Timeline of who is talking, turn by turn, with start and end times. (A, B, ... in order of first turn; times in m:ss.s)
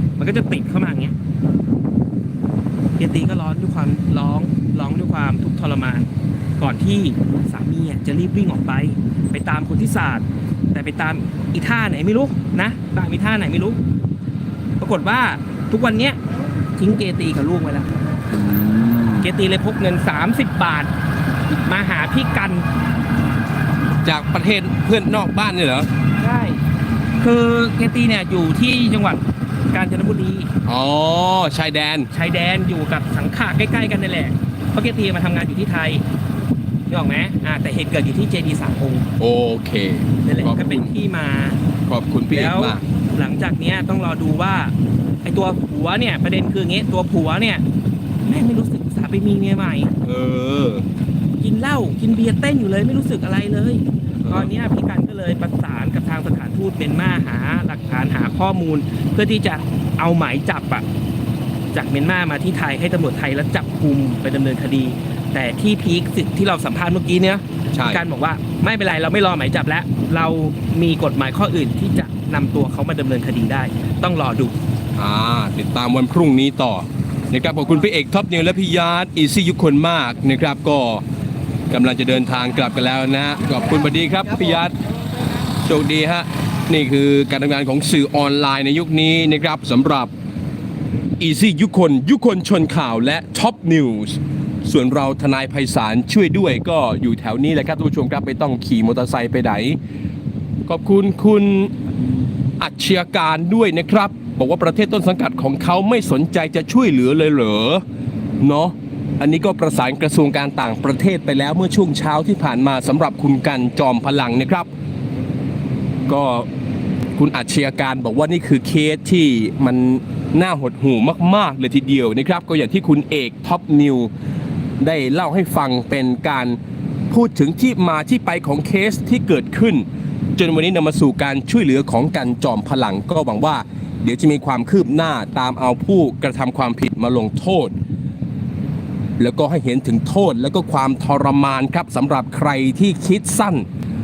0:00.2-0:01.2 A
0:03.0-0:06.1 A
0:06.6-0:13.8 A
0:14.8-0:16.2 A
0:16.8-0:17.9 A
0:18.3-0:19.3 B
0:19.2-0:20.9 A
0:21.6-0:22.7 A
0:24.0-0:25.9 B
0:26.2-0:26.6 A
0:27.2-0:30.5 A
0:30.6-0:32.1 B
0:32.1-0:36.0 A
0:36.9-0:39.1 A
0:39.2-0:41.0 B
0:40.2-0:41.6 A
0:41.9-0:42.8 B
0:42.3-0:44.7 A
0:45.2-0:47.6 A
0:48.2-0:49.9 A
0:50.0-0:50.9 B
0:51.4-1:00.8 A
0:54.2-0:54.5 B
1:01.7-1:14.6 A
1:07.7-1:08.0 B
1:15.0-1:21.0 B
1:21.7-1:24.7 B
1:25.4-1:30.1 B
1:31.2-1:39.8 B
1:40.7-1:41.7 B
1:42.6-1:47.8 B
1:48.4-1:54.7 B
1:56.1-1:56.5 B
1:57.2-2:04.1 B
2:04.8-2:06.6 B
2:07.1-2:09.8 B
2:10.4-2:17.7 B
2:19.2-2:23.7 B